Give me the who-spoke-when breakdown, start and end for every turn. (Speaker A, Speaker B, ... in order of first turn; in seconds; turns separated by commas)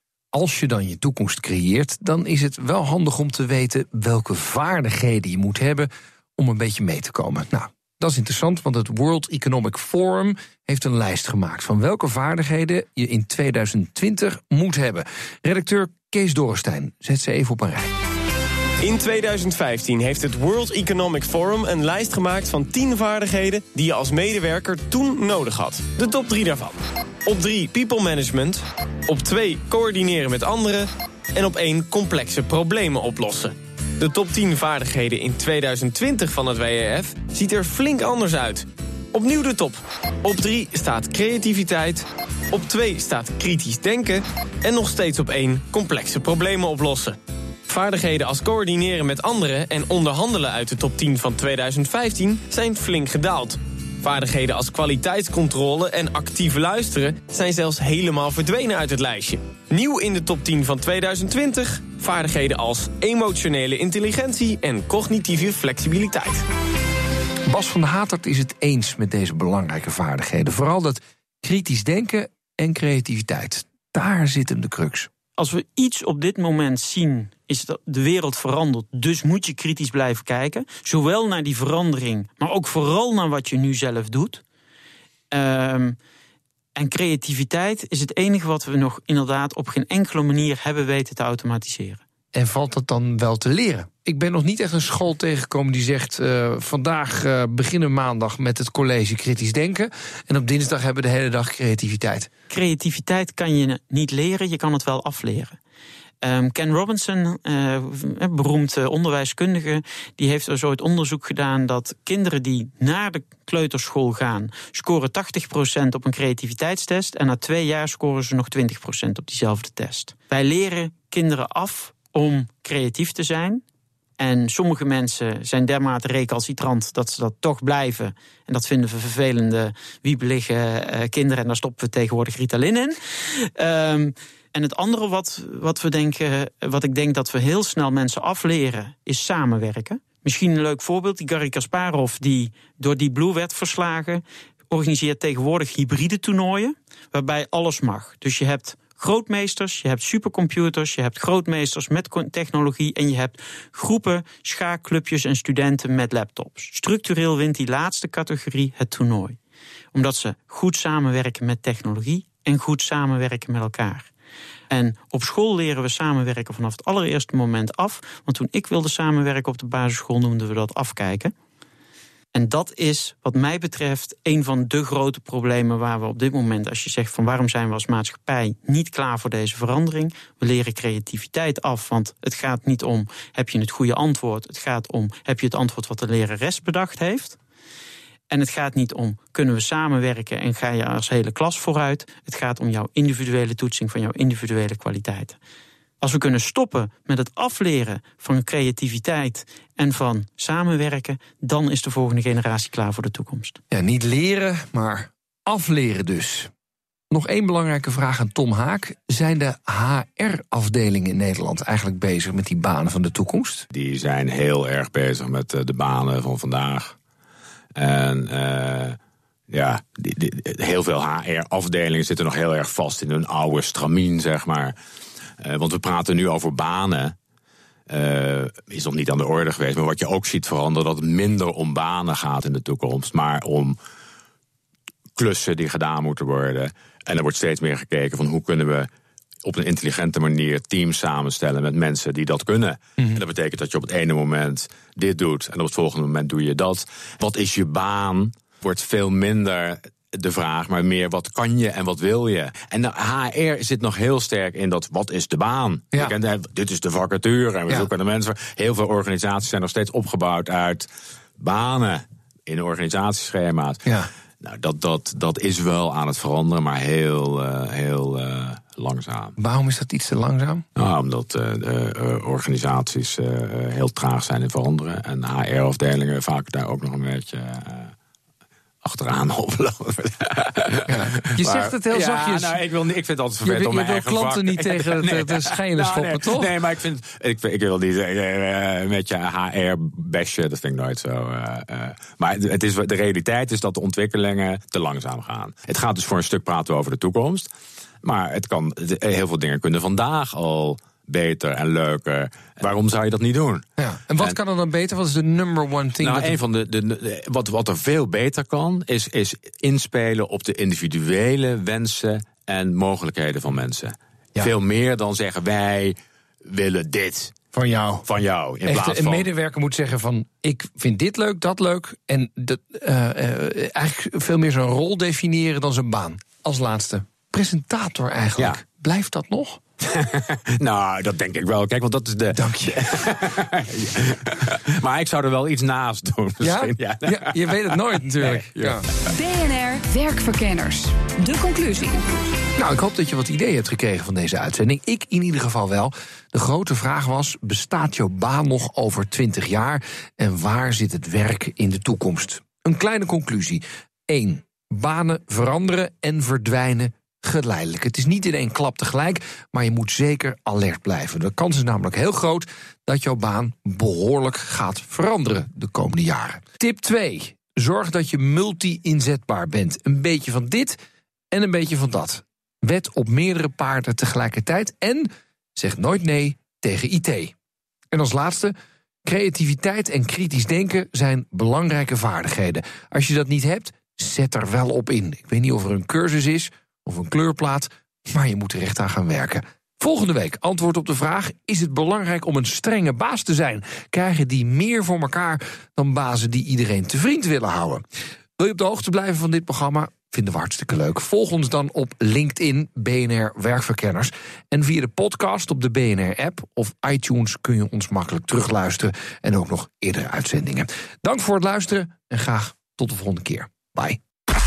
Speaker A: 0.3-17.9, Speaker B: 18.8-66.4, Speaker A: 67.5-75.1, Speaker C: 75.4-84.4, Speaker C: 85.3-86.0, Speaker C: 86.7-92.0, Speaker A: 92.3-102.3, Speaker C: 102.5-105.6, Speaker C: 106.2-123.6, Speaker C: 124.2-159.4, Speaker C: 159.9-164.1, Speaker C: 164.7-171.3, Speaker C: 172.3-187.4, Speaker C: 188.3-195.4, Speaker C: 196.0-203.6, Speaker A: 203.7-206.5, Speaker A: 207.1-213.7, Speaker D: 213.7-216.9, Speaker D: 217.8-219.0, Speaker D: 219.5-224.7, Speaker D: 225.4-227.2, Speaker D: 227.9-233.8, Speaker D: 235.2-238.9, Speaker D: 239.4-260.9, Speaker D: 261.4-263.8, Speaker A: 263.8-264.1, Speaker D: 264.4-269.3, Speaker A: 269.4-270.6, Speaker D: 270.8-277.9, Speaker D: 278.8-297.5, Speaker A: 280.9-282.6, Speaker A: 283.4-286.6, Speaker D: 298.0-303.6, Speaker A: 303.8-306.4, Speaker D: 306.0-317.3, Speaker A: 317.5-318.1, Speaker D: 318.1-319.3, Speaker A: 318.6-329.6, Speaker D: 329.8-338.8, Speaker A: 332.3-333.1, Speaker A: 336.4-338.9, Speaker E: 339.1-342.0, Speaker A: 342.6-370.8, Speaker A: 371.3-377.3, Speaker A: 377.9-378.5, Speaker A: 379.0-397.8, Speaker A: 398.4-414.0